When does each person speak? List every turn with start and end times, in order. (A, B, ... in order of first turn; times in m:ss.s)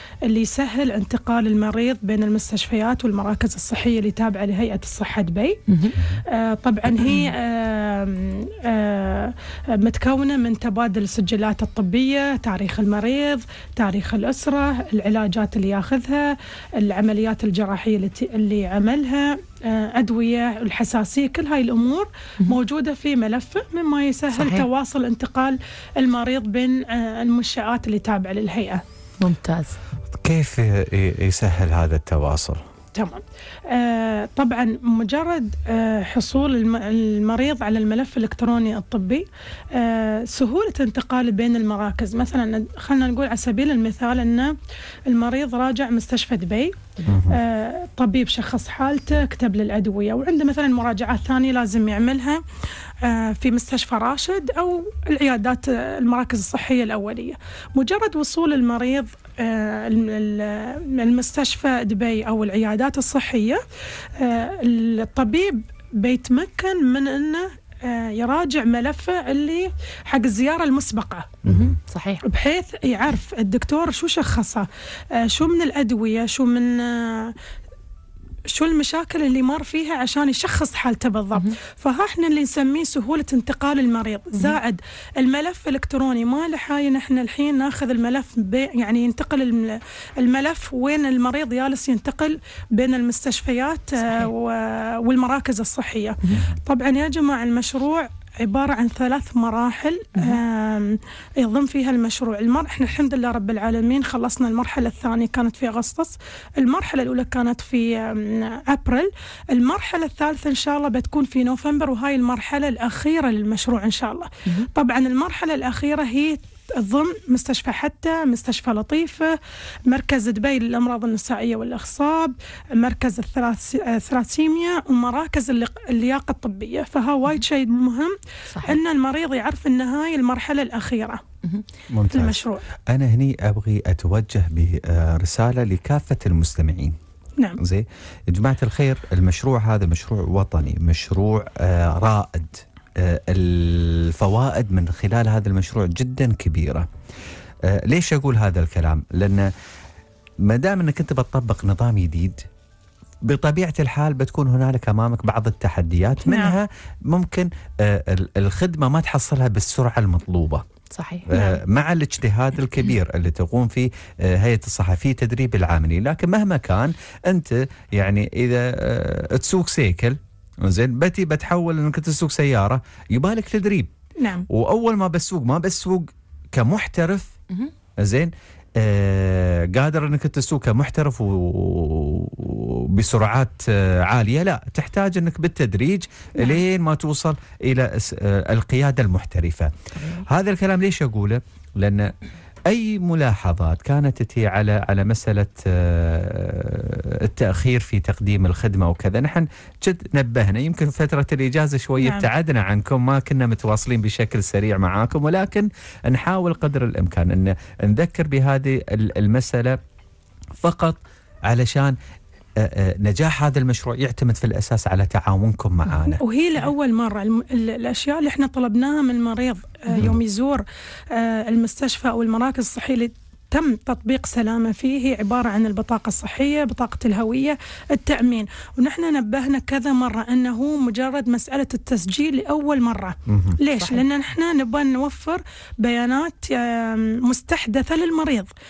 0:00.3-0:05.6 A
0:05.7-0:06.0 B
0:06.3-0:28.8 A
0:07.0-0:07.3 B
0:24.3-0:24.7 B
0:29.2-0:29.8 B
0:30.1-0:32.7 C
0:32.9-0:44.6 A
0:45.1-0:46.7 A
0:47.0-0:47.4 C
0:47.3-0:52.4 A
0:53.0-1:03.6 A
1:04.2-1:11.3 A
1:11.4-1:11.8 C
1:11.5-1:12.2 B
1:12.2-1:17.3 A
1:18.5-1:59.4 A
1:34.0-1:34.3 B
1:59.9-2:11.2 A
2:08.5-2:08.8 B
2:11.9-2:17.0 C
2:12.1-2:12.6 A
2:17.6-2:26.9 C
2:27.6-2:29.5 C
2:30.4-2:32.4 C
2:33.2-2:40.6 C
2:40.9-2:41.3 B
2:41.3-2:53.9 C
2:54.2-2:54.4 A
2:54.5-2:57.3 C
2:58.0-3:12.1 C
3:09.9-3:10.2 B
3:12.7-3:29.8 C
3:22.0-3:22.3 A
3:30.6-3:32.0 C
3:32.6-3:36.2 C
3:36.2-3:58.5 A
3:53.3-3:53.6 C
3:53.7-3:54.0 B